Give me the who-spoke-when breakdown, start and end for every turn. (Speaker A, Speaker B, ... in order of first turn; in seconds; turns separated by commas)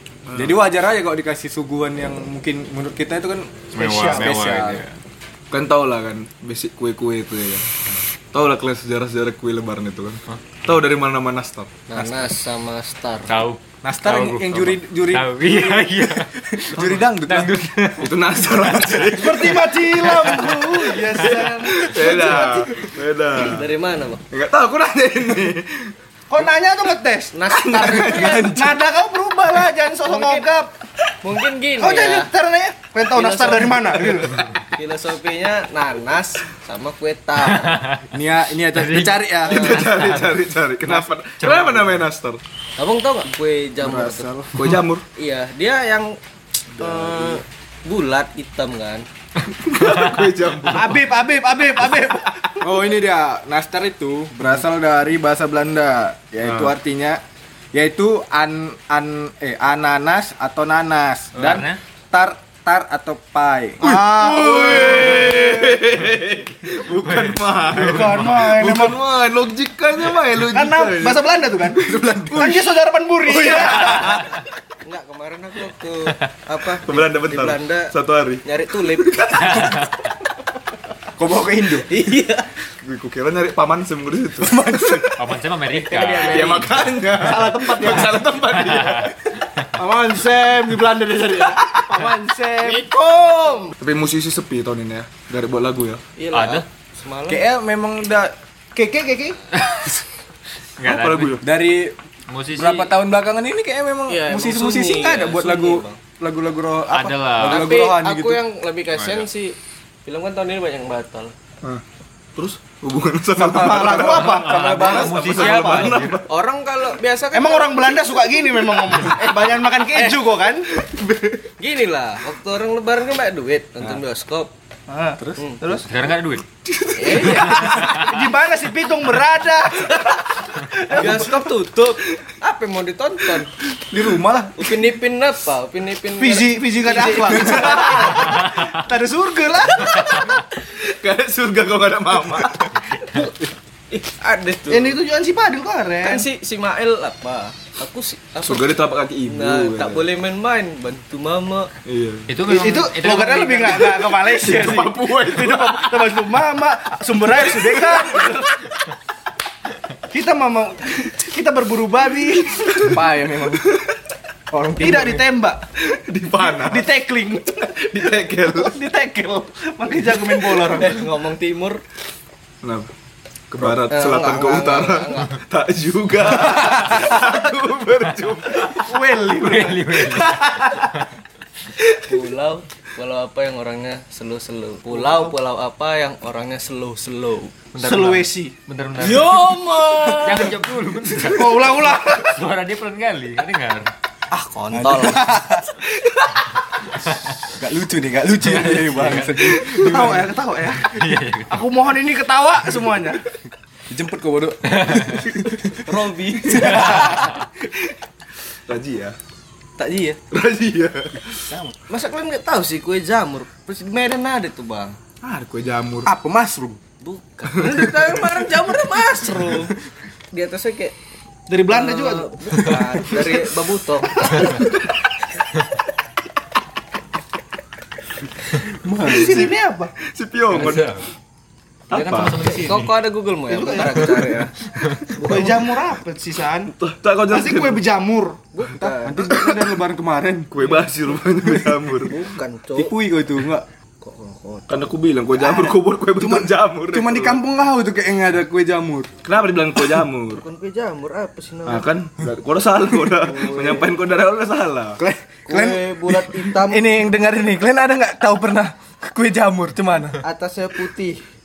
Speaker A: 0.2-0.6, Speaker B: 0.3-4.8, Speaker C: 3.7-5.0, Speaker A: 5.5-7.7, Speaker A: 8.3-11.7, Speaker D: 11.9-13.3, Speaker B: 11.9-12.3, Speaker C: 13.3-19.0, Speaker B: 13.8-17.7, Speaker A: 18.0-23.6, Speaker E: 19.1-22.7, Speaker C: 20.2-20.6, Speaker D: 21.2-22.6, Speaker D: 23.4-24.2, Speaker A: 24.3-25.9, Speaker E: 26.3-27.4, Speaker D: 27.3-28.6, Speaker A: 27.5-28.8, Speaker E: 28.5-30.7, Speaker D: 29.9-30.5, Speaker D: 31.2-32.3, Speaker E: 31.8-34.4, Speaker D: 33.1-37.8, Speaker A: 33.9-34.6, Speaker C: 37.5-38.0, Speaker B: 38.1-39.8, Speaker C: 38.7-40.4, Speaker D: 39.4-40.2, Speaker A: 39.5-42.4, Speaker C: 41.4-42.0, Speaker D: 42.8-44.3, Speaker B: 43.8-44.6, Speaker A: 44.5-45.0, Speaker D: 45.1-46.2, Speaker D: 46.7-49.0, Speaker B: 46.9-47.2, Speaker A: 49.5-51.2, Speaker E: 50.7-52.6, Speaker B: 52.6-57.2, Speaker A: 56.4-56.7, Speaker B: 57.7-63.9, Speaker C: 61.3-61.8, Speaker E: 63.8-64.9, Speaker A: 63.8-72.6, Speaker C: 64.9-65.3, Speaker C: 66.9-68.5, Speaker E: 67.8-69.0, Speaker E: 70.4-71.8, Speaker B: 71.7-72.7, Speaker E: 72.3-74.2, Speaker B: 73.3-74.2, Speaker D: 73.8-79.7, Speaker A: 76.8-78.4, Speaker A: 79.1-79.7, Speaker C: 79.5-80.0, Speaker B: 81.2-81.9, Speaker D: 81.7-82.5, Speaker A: 82.8-84.5, Speaker B: 84.4-85.3, Speaker C: 85.1-86.7, Speaker D: 85.7-86.9, Speaker A: 86.2-89.1, Speaker E: 87.2-88.2, Speaker C: 88.4-89.7, Speaker E: 89.8-92.9, Speaker A: 91.7-92.0, Speaker D: 92.6-93.7, Speaker A: 93.8-96.0, Speaker D: 96.2-97.4, Speaker C: 96.3-96.6, Speaker B: 97.3-98.3, Speaker E: 98.7-99.4, Speaker C: 99.5-100.0, Speaker C: 100.8-101.4, Speaker A: 100.8-101.4, Speaker B: 101.4-101.9, Speaker C: 102.3-102.9, Speaker B: 102.5-108.4, Speaker D: 104.1-106.0, Speaker C: 106.9-107.7, Speaker D: 107.4-111.3, Speaker C: 108.9-109.3, Speaker A: 112.3-116.3, Speaker B: 113.3-115.2, Speaker E: 113.8-114.6, Speaker C: 114.0-116.2, Speaker D: 114.7-120.2, Speaker E: 117.3-120.7, Speaker D: 121.4-124.5, Speaker E: 124.9-125.9, Speaker D: 125.3-125.8, Speaker C: 125.7-126.4, Speaker A: 126.7-128.1, Speaker D: 126.9-127.8, Speaker C: 127.2-128.2, Speaker E: 127.3-131.1, Speaker D: 129.6-133.5, Speaker A: 130.9-131.4, Speaker A: 133.4-134.8, Speaker D: 134.5-138.4, Speaker E: 136.2-140.4, Speaker D: 139.8-140.5, Speaker A: 140.4-142.9, Speaker D: 142.9-143.3, Speaker D: 143.9-145.0, Speaker E: 144.7-146.2, Speaker D: 146.0-151.7, Speaker A: 148.4-150.1, Speaker A: 151.8-152.4, Speaker C: 152.3-154.0, Speaker E: 152.4-158.7, Speaker A: 153.7-156.5, Speaker A: 157.3-158.3, Speaker E: 160.1-162.9, Speaker A: 162.5-163.0, Speaker B: 162.8-163.7, Speaker A: 163.5-163.9, Speaker B: 164.5-165.2, Speaker E: 164.8-165.6, Speaker A: 165.8-166.9, Speaker E: 166.3-167.8, Speaker A: 167.4-168.8, Speaker E: 168.4-171.0, Speaker D: 170.6-171.8, Speaker A: 172.6-172.9, Speaker A: 173.5-178.9, Speaker D: 173.9-175.4, Speaker D: 176.7-177.2, Speaker C: 178.1-178.8, Speaker E: 178.7-180.9, Speaker C: 179.3-180.4, Speaker D: 182.0-187.5, Speaker E: 184.9-185.2, Speaker C: 187.7-189.5, Speaker E: 187.8-188.5, Speaker D: 189.0-190.6, Speaker B: 189.1-190.5, Speaker C: 190.0-193.9, Speaker E: 191.2-192.4, Speaker D: 194.3-195.6, Speaker B: 194.7-195.7, Speaker C: 197.0-197.5, Speaker B: 197.5-200.2, Speaker C: 198.4-200.2, Speaker A: 199.4-200.1, Speaker E: 199.8-203.2, Speaker C: 200.7-201.6, Speaker B: 203.9-207.7, Speaker C: 204.7-205.3, Speaker D: 205.8-207.3, Speaker A: 208.4-209.2, Speaker D: 209.8-210.2, Speaker A: 210.3-211.5, Speaker B: 211.4-211.7, Speaker D: 211.8-215.0, Speaker A: 215.2-216.1, Speaker B: 216.0-216.8, Speaker D: 217.0-219.7, Speaker A: 217.5-218.2, Speaker D: 220.3-220.9, Speaker E: 221.5-222.3, Speaker D: 221.7-224.6, Speaker B: 222.5-222.8, Speaker E: 224.2-224.5, Speaker B: 228.7-229.4, Speaker A: 229.0-231.0, Speaker E: 229.1-229.9, Speaker C: 230.5-231.1, Speaker A: 231.9-232.5, Speaker C: 231.9-232.9, Speaker D: 231.9-234.5, Speaker E: 233.5-234.1, Speaker C: 234.8-235.1, Speaker A: 235.1-235.5, Speaker D: 235.2-235.5, Speaker E: 235.3-236.7, Speaker A: 236.6-237.8, Speaker E: 237.3-238.4, Speaker D: 238.5-239.2, Speaker B: 238.8-240.5, Speaker A: 239.2-239.8, Speaker A: 240.5-242.1, Speaker B: 241.3-242.0, Speaker D: 242.0-242.9, Speaker B: 242.7-243.6, Speaker D: 244.0-244.9, Speaker A: 244.7-247.4, Speaker B: 246.1-249.1, Speaker A: 249.2-250.4, Speaker D: 250.3-251.9, Speaker A: 251.7-255.0, Speaker B: 253.1-253.8, Speaker D: 253.2-253.9, Speaker B: 255.0-260.2, Speaker D: 255.4-257.0, Speaker D: 260.2-261.2